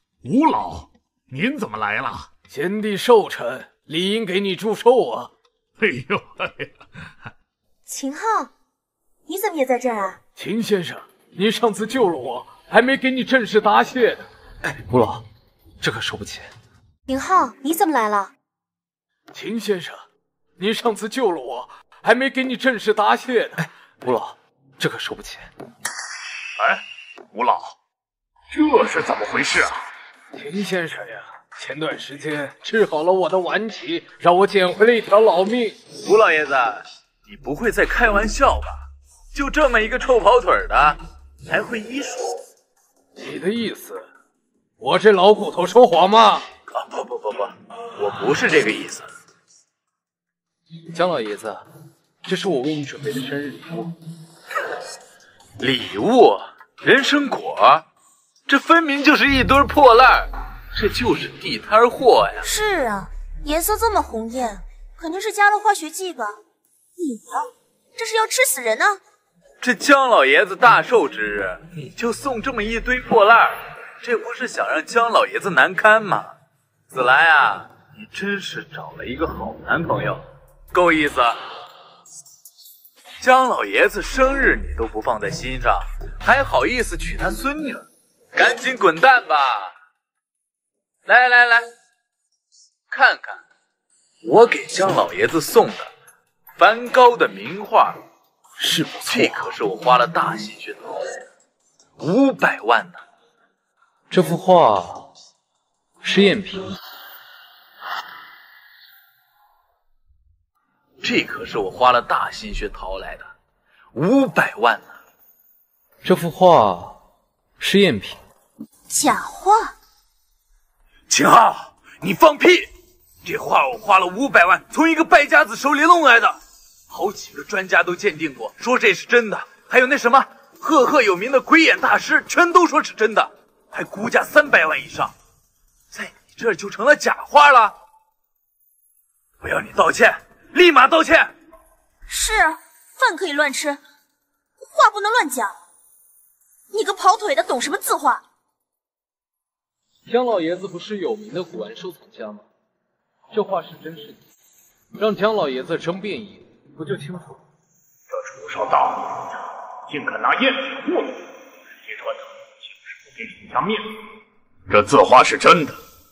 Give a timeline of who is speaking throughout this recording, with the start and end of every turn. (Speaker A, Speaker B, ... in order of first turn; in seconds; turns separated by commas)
Speaker A: 0.2-2.3, Speaker B: 2.5-5.3, Speaker A: 5.8-6.7, Speaker C: 7.9-8.5, Speaker C: 9.3-10.2, Speaker B: 10.4-14.3, Speaker D: 14.6-15.2, Speaker D: 15.8-16.5, Speaker C: 17.1-18.3, Speaker B: 19.3-20.0, Speaker B: 20.6-23.7, Speaker D: 24.0-25.4, Speaker B: 24.8-25.5, Speaker A: 26.6-27.7, Speaker A: 28.5-29.8, Speaker B: 30.3-35.9, Speaker E: 35.9-42.4, Speaker B: 43.2-44.0, Speaker B: 44.8-46.5, Speaker E: 46.7-49.1, Speaker D: 50.9-51.6, Speaker D: 52.2-53.9, Speaker B: 52.8-53.0, Speaker E: 55.6-57.8, Speaker E: 58.5-62.5, Speaker F: 62.4-66.4, Speaker F: 67.0-69.0, Speaker E: 69.6-76.3, Speaker E: 76.9-81.4, Speaker E: 83.2-89.7, Speaker E: 91.0-91.7, Speaker E: 92.9-93.4, Speaker E: 94.2-95.9, Speaker E: 96.5-98.0, Speaker E: 99.0-101.0, Speaker E: 102.0-103.0, Speaker D: 104.1-105.1, Speaker D: 106.0-106.7, Speaker E: 111.0-113.3, Speaker E: 113.9-114.9, Speaker D: 116.0-117.0, Speaker D: 117.6-118.2, Speaker F: 118.9-119.7, Speaker E: 121.1-122.7, Speaker E: 123.2-126.4, Speaker E: 126.9-135.1, Speaker E: 135.9-137.7, Speaker E: 139.4-141.3, Speaker F: 142.1-143.8, Speaker F: 144.6-145.5, Speaker F: 146.7-148.2, Speaker D: 150.1-152.4, Speaker D: 153.3-154.2, Speaker D: 154.9-157.3, Speaker A: 158.1-159.3, Speaker A: 159.9-161.2, Speaker A: 161.8-162.3, Speaker A: 163.1-163.9, Speaker A: 164.7-165.8